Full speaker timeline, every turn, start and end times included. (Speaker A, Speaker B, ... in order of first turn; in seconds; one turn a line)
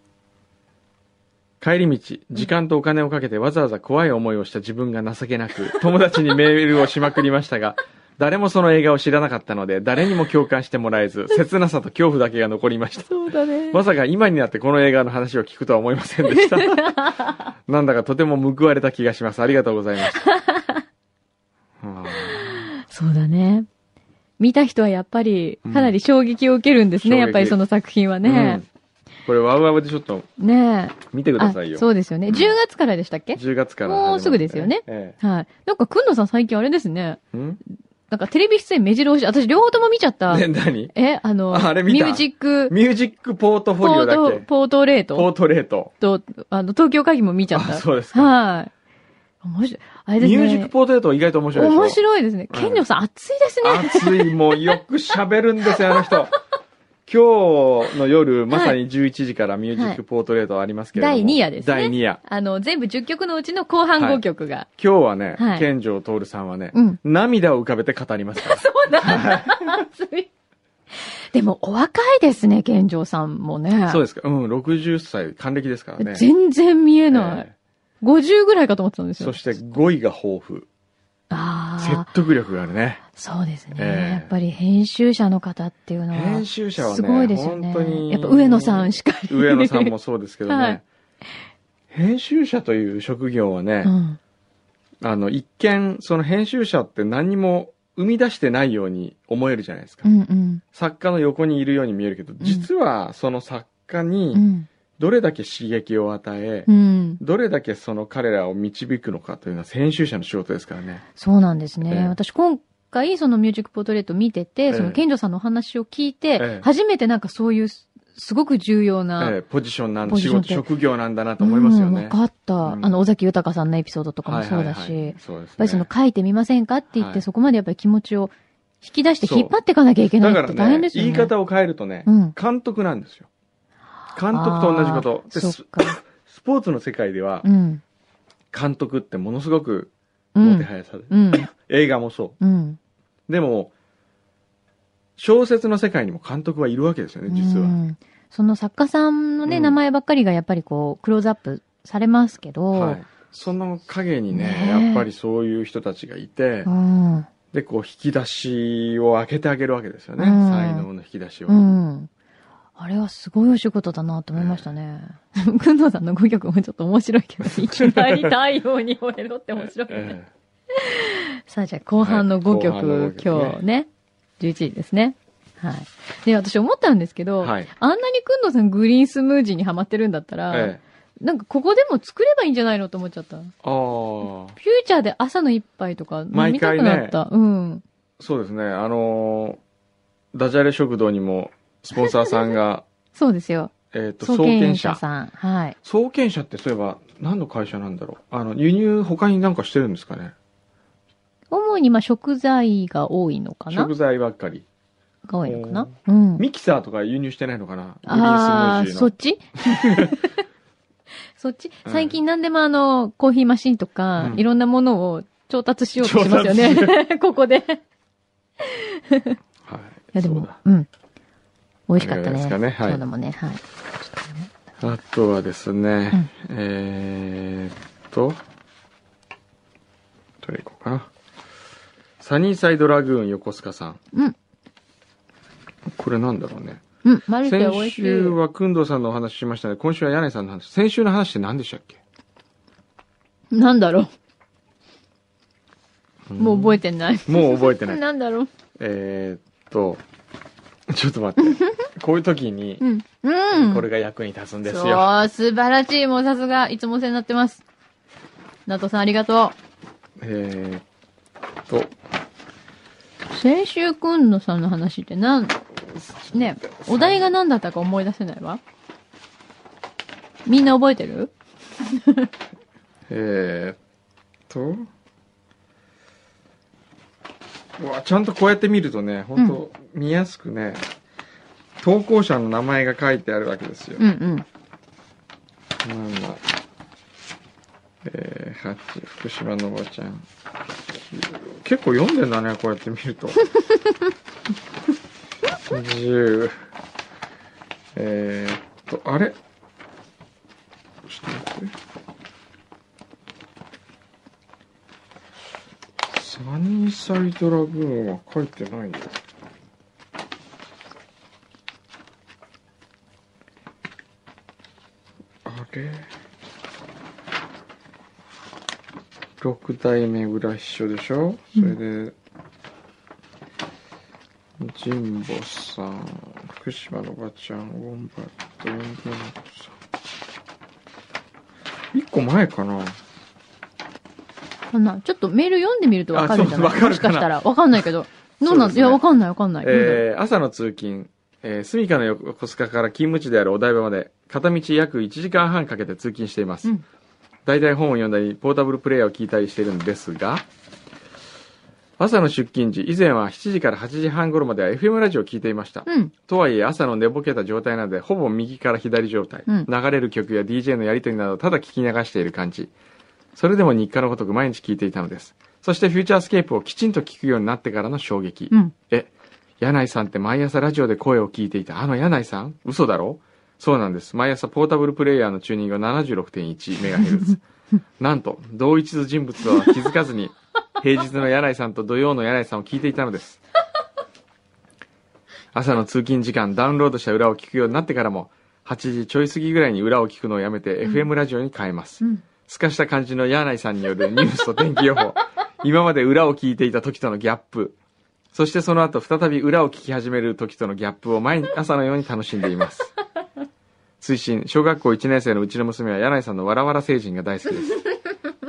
Speaker A: 1.6-13.2
Speaker B: 13.1-13.8
Speaker A: 13.7-20.2
Speaker B: 16.3-17.4
Speaker B: 20.2-20.8
Speaker A: 21.8-22.5
Speaker B: 22.1-23.7
Speaker B: 24.4-28.6
Speaker A: 25.6-25.9
Speaker A: 27.0-27.6
Speaker A: 28.2-28.6
Speaker A: 29.2-30.3
Speaker B: 30.4-37.2
Speaker A: 31.1-32.5
Speaker A: 33.3-35.2
Speaker A: 37.3-37.6
Speaker B: 38.1-42.7
Speaker A: 40.3-40.9
Speaker A: 41.5-44.5
Speaker B: 43.8-45.3
Speaker A: 45.1-45.9
Speaker B: 46.0-48.7
Speaker A: 47.5-48.3
Speaker B: 49.4-50.7
Speaker A: 50.2-52.8
Speaker B: 51.5-54.7
Speaker A: 53.6-56.3
Speaker B: 55.9-56.2
Speaker A: 57.0-62.2
Speaker B: 58.5-58.8
Speaker B: 59.7-60.0
Speaker B: 60.9-64.7
Speaker A: 64.0-64.2
Speaker A: 64.8-69.8
Speaker B: 65.4-65.7
Speaker B: 66.7-67.0
Speaker B: 68.4-70.3
Speaker B: 71.3-74.0
Speaker A: 73.9-76.3
Speaker B: 76.0-77.5
Speaker A: 77.1-77.5
Speaker B: 78.0-79.5
Speaker A: 79.2-80.7
Speaker B: 81.3-82.1
Speaker A: 81.8-83.0
Speaker B: 83.2-89.9
Speaker A: 83.7-84.3
Speaker A: 86.1-90.8
Speaker B: 90.5-90.8
Speaker A: 91.9-93.9
Speaker B: 93.8-94.2
Speaker A: 95.0-100.1
Speaker B: 100.0-100.6
Speaker A: 100.7-104.4
Speaker B: 102.4-102.7
Speaker B: 104.3-104.7
Speaker A: 105.0-106.7
Speaker B: 106.7-107.2
Speaker A: 107.2-111.0
Speaker B: 111.2-119.3
Speaker A: 111.9-112.1
Speaker A: 114.7-115.0
Speaker A: 116.4-116.7
Speaker A: 119.2-123.0
Speaker B: 120.0-120.6
Speaker B: 121.4-131.3
Speaker A: 124.2-125.9
Speaker A: 126.9-127.2
Speaker A: 129.2-129.5
Speaker A: 130.2-133.3
Speaker B: 132.1-132.3
Speaker A: 134.1-137.4
Speaker B: 134.3-136.0
Speaker B: 137.4-137.8
Speaker A: 138.5-142.4
Speaker B: 140.3-141.5
Speaker B: 142.4-142.8
Speaker A: 143.3-143.7
Speaker A: 145.2-147.8
Speaker B: 147.3-153.0
Speaker A: 149.4-149.8
Speaker A: 152.7-156.7
Speaker B: 154.3-155.1
Speaker B: 156.6-157.3
Speaker A: 157.5-161.6
Speaker B: 160.2-160.9
Speaker B: 161.5-162.1
Speaker B: 162.8-170.2
Speaker A: 164.3-164.7
Speaker A: 167.4-168.3
Speaker A: 169.6-170.3
Speaker B: 170.7-173.9
Speaker A: 172.0-173.6
Speaker B: 174.4-183.5
Speaker A: 177.4-177.7
Speaker A: 180.5-180.8
Speaker A: 183.6-184.6
Speaker B: 184.6-187.8
Speaker A: 186.3-187.2
Speaker A: 188.2-189.6
Speaker A: 190.3-192.8
Speaker B: 191.9-192.6
Speaker B: 193.1-195.7
Speaker A: 193.9-195.0
Speaker A: 195.8-200.3
Speaker B: 201.5-203.9
Speaker A: 203.7-204.7
Speaker B: 205.3-206.4
Speaker A: 205.4-209.1
Speaker B: 208.1-210.2
Speaker A: 209.6-210.2
Speaker B: 211.4-217.8
Speaker A: 211.8-212.2
Speaker A: 214.2-214.4
Speaker A: 216.0-216.9
Speaker B: 218.6-219.4
Speaker A: 219.6-220.6
Speaker B: 220.1-220.9
Speaker B: 221.9-224.5
Speaker A: 222.0-223.0
Speaker A: 224.8-228.4
Speaker A: 230.4-231.1
Speaker A: 232.2-234.0
Speaker A: 235.8-236.8
Speaker B: 237.0-238.4
Speaker A: 237.4-242.0
Speaker B: 243.5-244.1
Speaker A: 246.3-248.0
Speaker B: 246.4-248.5
Speaker A: 248.8-250.0
Speaker A: 250.9-252.8
Speaker B: 251.4-251.8
Speaker B: 252.8-253.8
Speaker A: 253.5-255.1
Speaker B: 254.6-257.6
Speaker B: 258.7-259.6
Speaker A: 260.2-260.8
Speaker A: 261.7-261.9
Speaker B: 263.3-265.6
Speaker A: 265.9-267.3
Speaker B: 266.3-268.6
Speaker B: 270.4-271.3
Speaker A: 273.1-273.8
Speaker A: 274.5-274.9
Speaker A: 277.8-280.9
Speaker A: 281.8-284.0
Speaker B: 284.0-284.4
Speaker A: 285.8-286.4
Speaker A: 288.0-290.2
Speaker A: 290.9-293.5
Speaker A: 295.7-296.6
Speaker A: 297.9-299.4
Speaker A: 301.1-301.7
Speaker A: 306.1-309.1
Speaker A: 315.4-316.1
Speaker A: 319.4-322.1
Speaker A: 324.6-329.7
Speaker A: 331.9-333.0
Speaker B: 334.7-340.0
Speaker A: 336.1-337.8
Speaker A: 338.4-339.0
Speaker A: 339.6-346.7
Speaker A: 347.4-350.4
Speaker A: 352.0-362.7
Speaker B: 355.9-356.1
Speaker A: 363.3-377.4
Speaker A: 378.0-383.4
Speaker A: 385.5-397.8
Speaker A: 398.3-402.9
Speaker A: 404.0-407.8